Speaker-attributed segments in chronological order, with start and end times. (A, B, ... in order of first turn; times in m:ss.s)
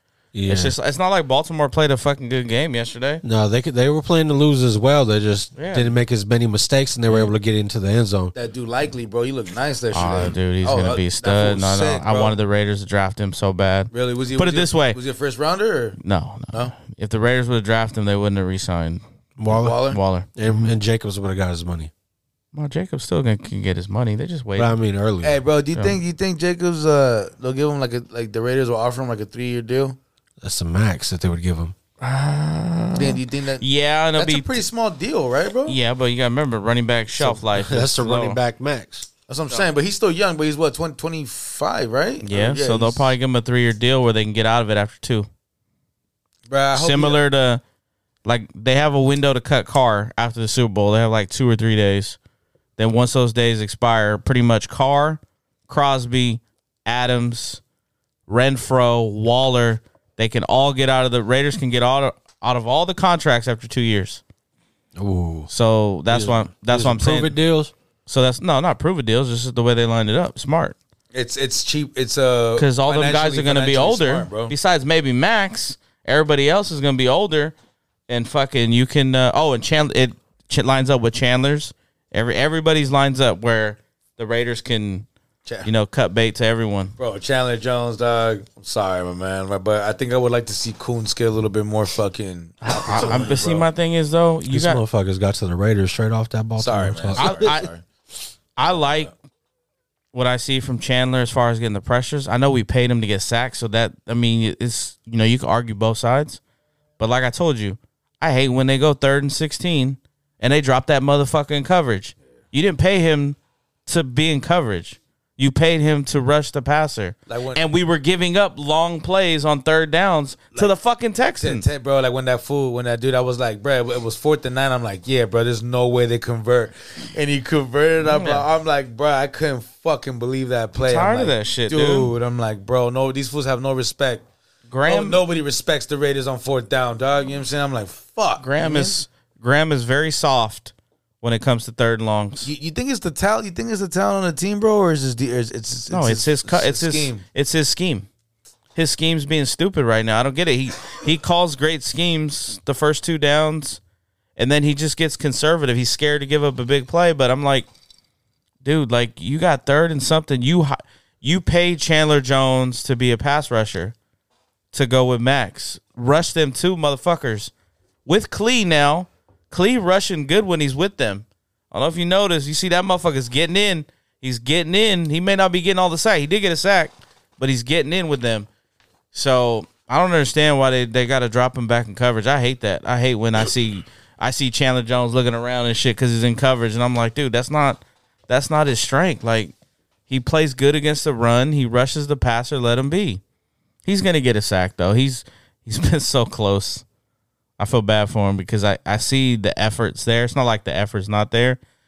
0:00.3-0:00.8 A
0:00.5-0:03.2 B
0:03.2-0:08.3 A
0:05.6-0:05.9 B
0:08.4-0:12.4 C
0:09.9-0:15.0 B
0:13.9-0:16.0 C
0:16.0-0:19.0 B
0:19.4-0:19.8 A
0:19.5-0:20.0 C
0:19.8-0:20.3 B
0:20.4-0:21.9 A
0:22.5-0:24.7 B
0:24.6-0:25.4 A
0:25.2-0:30.0 C
0:25.7-0:26.0 B
0:30.4-0:31.8 A
0:32.0-0:34.5 B
0:33.0-0:33.6 C
0:34.2-0:35.8 C
0:35.7-0:38.4 B
0:37.2-0:39.1 A
0:39.3-0:43.1 C
0:42.2-0:45.3 B
0:46.5-0:47.2 C
0:46.7-0:47.6 B
0:48.2-0:52.2 B
0:52.8-0:57.6 B
0:58.3-1:04.2 B
1:05.0-1:05.5 A
1:05.5-1:07.4 B
1:06.1-1:07.7 A
1:08.1-1:10.8 B
1:11.1-1:14.6 C
1:12.6-1:17.5 B
1:18.1-1:25.1 B
1:25.6-1:27.0 B
1:27.0-1:33.7 C
1:32.7-1:34.8 B
1:33.0-1:33.2 A
1:34.5-1:37.6 A
1:36.6-1:37.8 C
1:37.2-1:37.7 B
1:38.6-1:39.1 B
1:38.7-1:39.1 C
1:40.1-1:46.4 B
1:47.0-2:01.7 B
1:57.3-1:57.6 C
2:01.4-2:14.3 C
2:08.0-2:08.5 B
2:10.8-2:12.1 B
2:14.7-2:15.2 B
2:14.8-2:19.0 C
2:18.4-2:22.5 B
2:22.4-2:27.3 C
2:25.9-2:28.1 B
2:28.8-2:33.8 B
2:34.4-2:37.7 B
2:38.6-2:43.9 B
2:44.7-2:47.5 B
2:48.1-2:58.5 B
2:59.1-3:09.5 B
3:10.1-3:13.2 B
3:13.8-3:16.8 B
3:17.6-3:21.6 B